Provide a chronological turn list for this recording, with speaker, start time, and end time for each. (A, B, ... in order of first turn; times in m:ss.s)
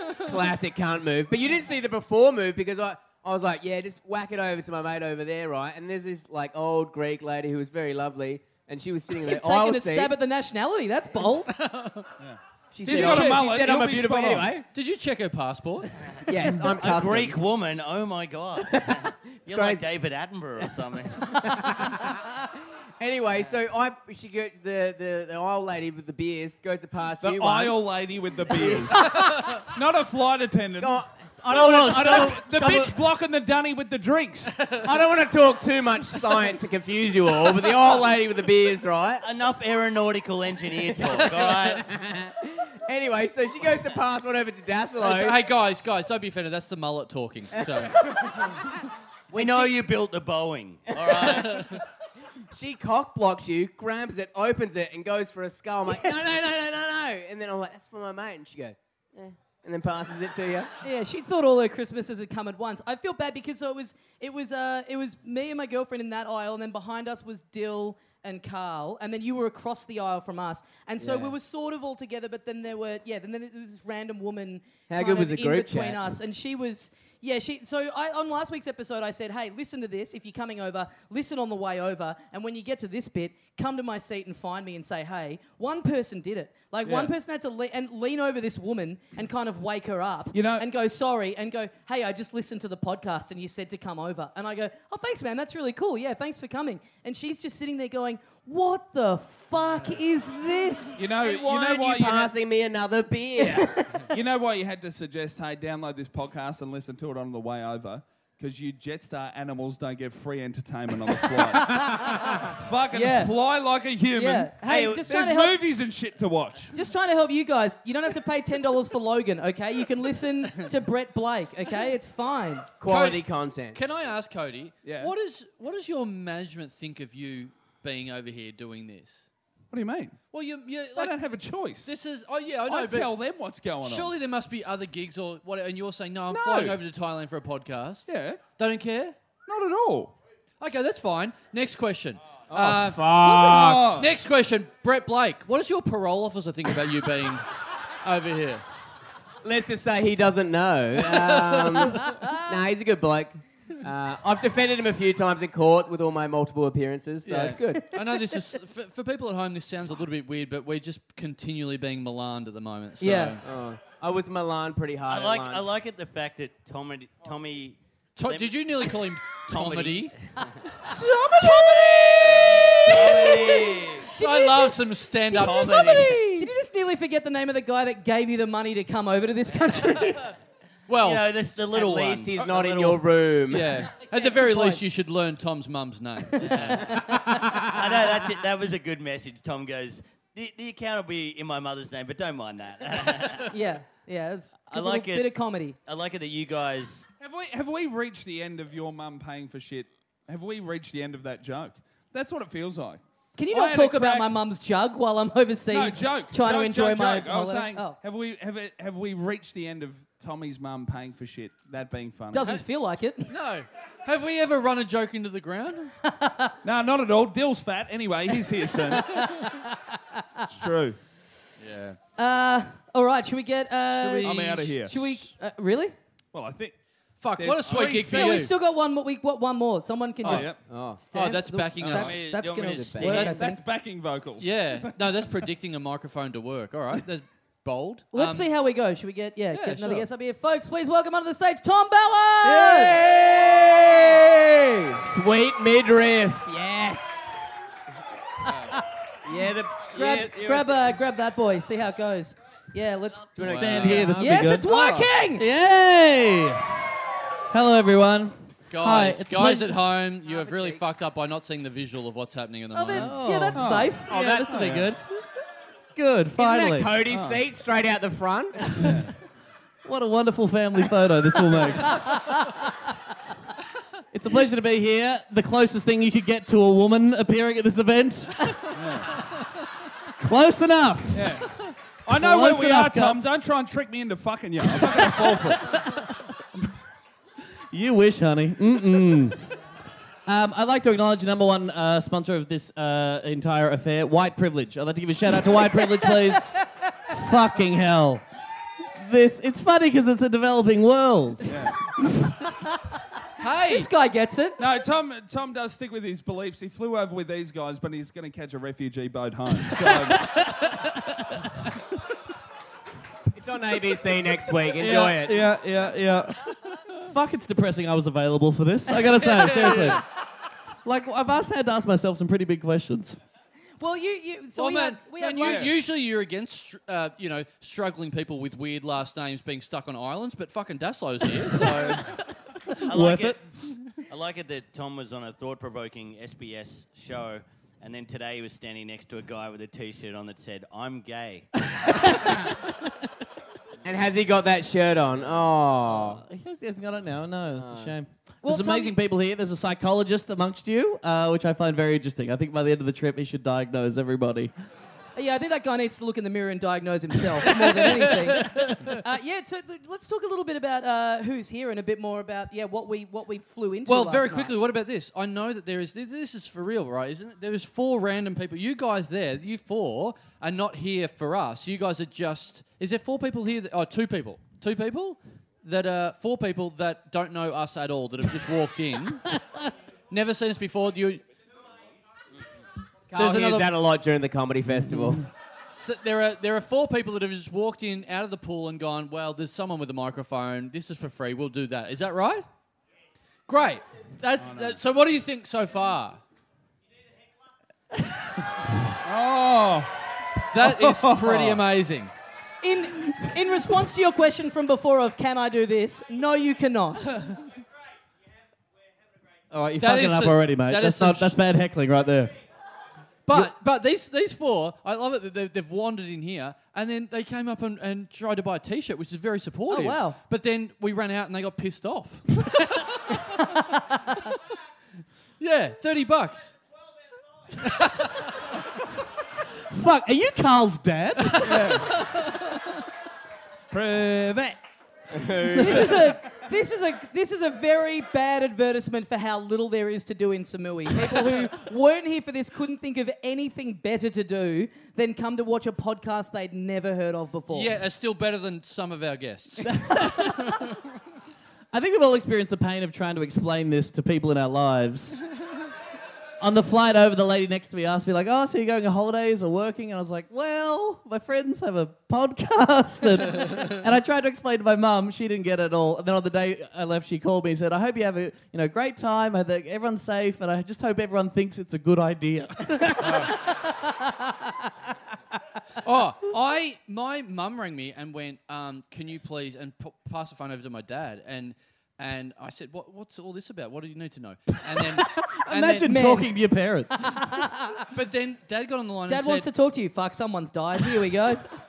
0:00.2-0:10.1 A
0:09.2-0:11.5 B
0:11.5-0:12.1 C
0:12.2-0:14.5 D
0:12.7-0:14.6 A
0:12.9-0:13.4 C
0:14.7-0:15.9 C
0:16.2-0:17.4 A
0:16.2-0:21.6 E
0:18.6-0:19.8 A
0:21.2-0:27.8 A
0:27.2-0:34.7 D
0:28.5-0:29.4 A
0:29.2-0:29.5 C
0:30.8-0:32.9 A
0:31.5-0:32.9 E
0:34.7-0:39.2 A
0:39.2-0:41.8 E
0:41.5-0:45.4 A
0:45.0-0:48.0 C
0:47.6-0:48.6 A
0:49.3-0:51.8 E
0:49.3-0:49.7 A
0:50.9-0:51.8 A
0:52.5-1:00.7 A
1:00.8-1:41.0 B
1:11.0-1:11.3 A
1:14.9-1:16.1 A
1:26.8-1:27.1 D
1:30.3-1:30.7 D
1:41.0-1:42.3 D
1:41.1-1:43.8 A
1:43.4-1:44.1 B
1:44.1-1:56.8 D
1:51.6-1:53.3 B
1:54.1-1:55.5 B
1:54.6-1:55.0 E
1:56.7-2:02.7 B
2:02.8-2:03.8 A
2:02.8-2:09.3 C
2:04.8-2:05.1 D
2:09.7-2:10.2 D
2:10.3-2:11.2 C
2:10.9-2:11.9 D
2:11.8-2:13.1 C
2:12.7-2:14.1 D
2:13.8-2:19.2 C
2:16.3-2:16.8 D
2:18.1-2:18.4 D
2:19.4-2:20.1 D
2:20.6-2:23.1 C
2:22.5-2:23.9 A
2:23.1-2:24.1 D
2:23.9-2:27.5 C
2:28.0-2:28.6 C
2:29.4-2:37.9 A
2:31.1-2:31.5 C
2:32.0-2:32.4 B
2:37.2-2:43.4 C
2:43.0-2:43.4 B
2:43.4-2:45.6 A
2:45.1-2:50.3 E
2:48.2-2:50.2 C
2:50.8-3:00.3 B
2:51.6-2:53.5 C
2:52.5-2:54.1 E
2:54.2-2:56.4 C
2:55.3-2:56.2 E
3:00.9-3:01.2 C
3:01.0-3:03.0 E
3:01.7-3:03.7 A
3:03.5-3:07.0 C
3:04.1-3:04.8 B
3:06.4-3:07.0 E
3:07.2-3:07.7 A
3:07.5-3:13.5 E
3:13.5-3:15.8 B
3:14.7-3:15.3 E
3:15.8-3:17.1 E
3:17.2-3:24.4 D
3:23.4-3:28.0 B
3:25.7-3:32.6 D
3:32.3-3:33.3 B
3:33.2-3:35.9 C
3:36.0-3:36.6 B
3:36.6-3:39.5 D
3:38.9-3:40.4 B
3:40.5-3:41.0 D
3:41.6-3:42.0 C
3:42.2-3:45.9 B
3:43.9-3:44.7 C
3:44.2-3:45.3 D
3:46.3-3:46.8 D
3:47.2-3:48.5 C
3:47.4-3:48.5 D
3:47.7-3:47.9 E
3:48.0-3:53.6 B
3:50.2-3:52.2 C
3:50.2-3:50.6 D
3:50.6-3:51.0 A
3:51.8-3:52.1 D
3:51.9-3:53.2 E
3:53.0-3:53.5 C
3:53.1-3:55.4 D
3:54.4-3:58.5 C
3:58.1-4:03.0 B
3:59.5-4:00.1 C
4:03.1-4:04.0 A
4:03.3-4:05.0 D
4:05.0-4:07.4 A
4:08.4-4:08.8 C
4:09.2-4:10.9 A
4:09.9-4:15.4 B
4:13.4-4:14.2 A
4:13.4-4:14.4 C
4:13.4-4:16.8 F
4:17.5-4:19.8 F
4:18.7-4:23.2 C
4:22.7-4:24.4 B
4:23.0-4:25.0 F
4:23.5-4:24.9 D
4:24.1-4:24.6 A
4:25.9-4:27.0 F
4:26.4-4:29.0 A
4:27.1-4:27.4 D
4:28.7-4:29.1 D
4:29.8-4:32.2 F
4:31.9-4:32.4 B
4:34.1-4:38.6 F
4:38.7-4:39.2 D
4:40.2-4:41.4 F
4:41.1-4:45.8 D
4:42.1-4:43.3 F
4:44.6-4:46.1 F
4:47.7-4:49.5 F
4:50.2-4:56.5 F
4:55.6-4:56.6 B
4:57.1-4:58.2 F
4:58.9-5:01.6 F
5:01.4-5:01.8 D
5:03.4-5:03.9 C
5:03.7-5:04.6 B
5:04.6-5:10.3 D
5:09.8-5:11.5 F
5:13.3-5:15.4 A
5:14.7-5:20.0 F
5:19.3-5:19.9 C
5:20.8-5:23.2 F
5:23.8-5:25.7 B
5:24.5-5:32.1 C
5:25.4-5:25.7 D
5:32.8-5:33.9 F
5:32.9-5:33.4 E
5:34.1-5:41.5 E
5:41.8-5:42.5 A
5:43.8-5:46.2 A
5:45.8-5:54.5 F
5:47.5-5:48.0 A
5:48.4-5:49.0 B
5:55.2-6:04.5 B
5:58.5-5:58.8 F
6:03.8-6:19.4 C
6:20.1-6:21.2 C
6:23.1-6:25.2 A
6:23.1-6:23.8 C
6:25.7-6:32.5 C
6:33.5-6:36.2 C
6:34.4-6:34.8 D
6:39.0-6:40.0 D
6:40.5-6:42.1 C
6:40.6-6:41.6 D
6:42.6-6:47.2 B
6:49.5-6:52.3 F
6:49.8-6:51.4 C
6:53.3-7:03.3 C
6:59.7-7:00.2 B
7:03.5-7:04.2 B
7:05.4-7:06.5 C
7:07.6-7:08.3 C
7:09.7-7:12.0 F
7:11.4-7:12.0 D
7:13.7-7:14.6 D
7:15.1-7:16.0 A
7:15.6-7:27.7 B
7:27.5-7:30.6 C
7:29.9-7:30.5 F
7:31.7-7:35.2 F
7:36.4-7:53.3 F
7:53.0-7:53.4 C
7:55.8-8:06.0 C
8:04.8-8:07.4 F
8:05.7-8:06.3 B
8:07.2-8:07.8 B
8:07.9-8:09.5 C
8:09.1-8:11.5 B